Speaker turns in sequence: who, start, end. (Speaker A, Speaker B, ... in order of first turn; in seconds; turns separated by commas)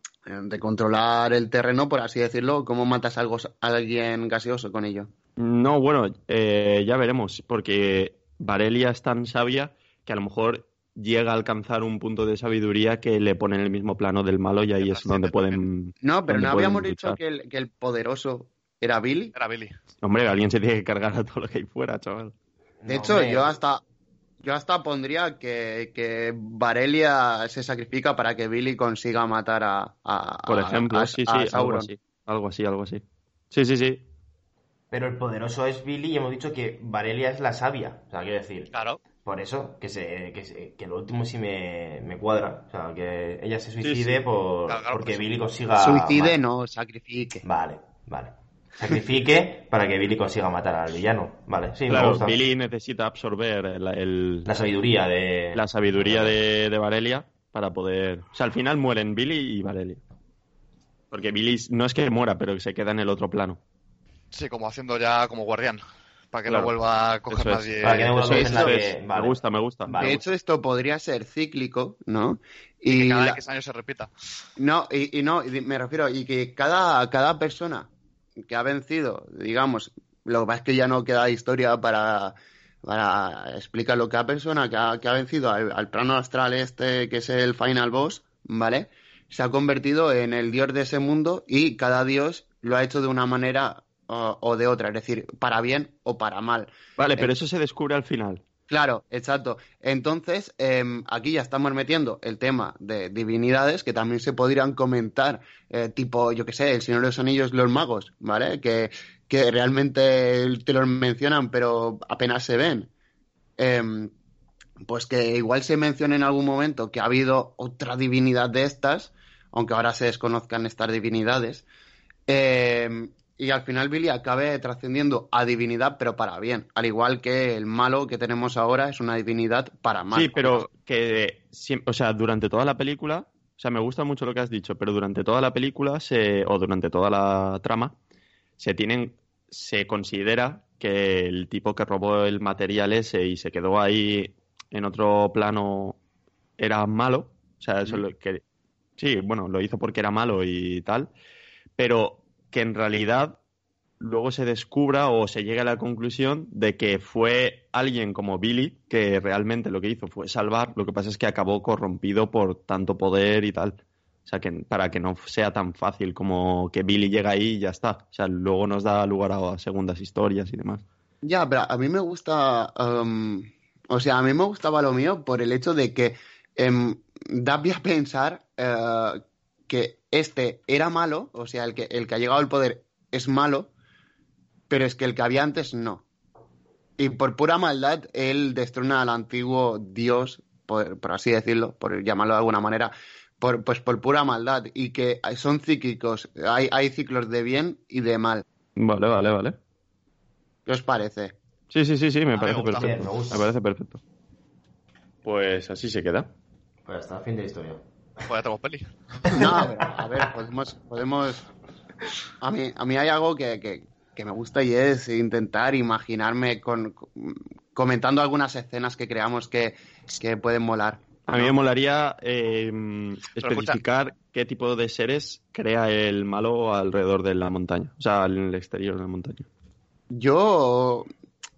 Speaker A: 0.3-5.1, Speaker B: 5.3-17.2, Speaker C: 14.8-15.6, Speaker A: 16.0-19.3, Speaker C: 19.3-19.8, Speaker B: 20.0-22.3, Speaker D: 22.8-23.6, Speaker A: 22.9-23.8, Speaker A: 24.4-31.9, Speaker B: 30.4-34.0, Speaker D: 34.9-38.7, Speaker C: 38.7-39.0, Speaker D: 39.2-46.4, Speaker B: 43.8-44.2, Speaker C: 44.7-45.2, Speaker A: 45.8-47.4, Speaker D: 47.4-52.4, Speaker B: 51.9-54.5, Speaker D: 54.4-56.4, Speaker B: 55.5-60.0, Speaker B: 61.1-63.6, Speaker C: 64.3-68.2, Speaker B: 66.5-66.7, Speaker B: 67.3-70.1, Speaker D: 67.8-70.2, Speaker A: 68.3-68.7, Speaker A: 70.0-73.4, Speaker C: 72.9-74.1, Speaker A: 74.6-77.9, Speaker A: 78.5-97.3, Speaker B: 97.0-98.4, Speaker A: 98.7-112.9, Speaker A: 113.6-114.1, Speaker A: 114.8-121.6, Speaker A: 122.3-130.7, Speaker B: 130.1-137.9, Speaker B: 138.6-146.0, Speaker B: 146.6-148.4, Speaker B: 149.0-151.1, Speaker B: 151.8-153.4, Speaker B: 154.0-170.8, Speaker A: 171.2-183.7, Speaker A: 184.7-186.0, Speaker A: 187.0-198.4, Speaker B: 198.8-199.6, Speaker A: 200.7-201.3, Speaker B: 201.7-204.0, Speaker C: 202.3-203.0, Speaker D: 202.5-203.5, Speaker B: 205.2-206.3, Speaker D: 206.8-207.8, Speaker C: 208.2-209.4, Speaker A: 209.3-211.4, Speaker A: 212.4-221.5, Speaker B: 221.3-229.4, Speaker C: 223.4-223.8, Speaker A: 230.1-231.1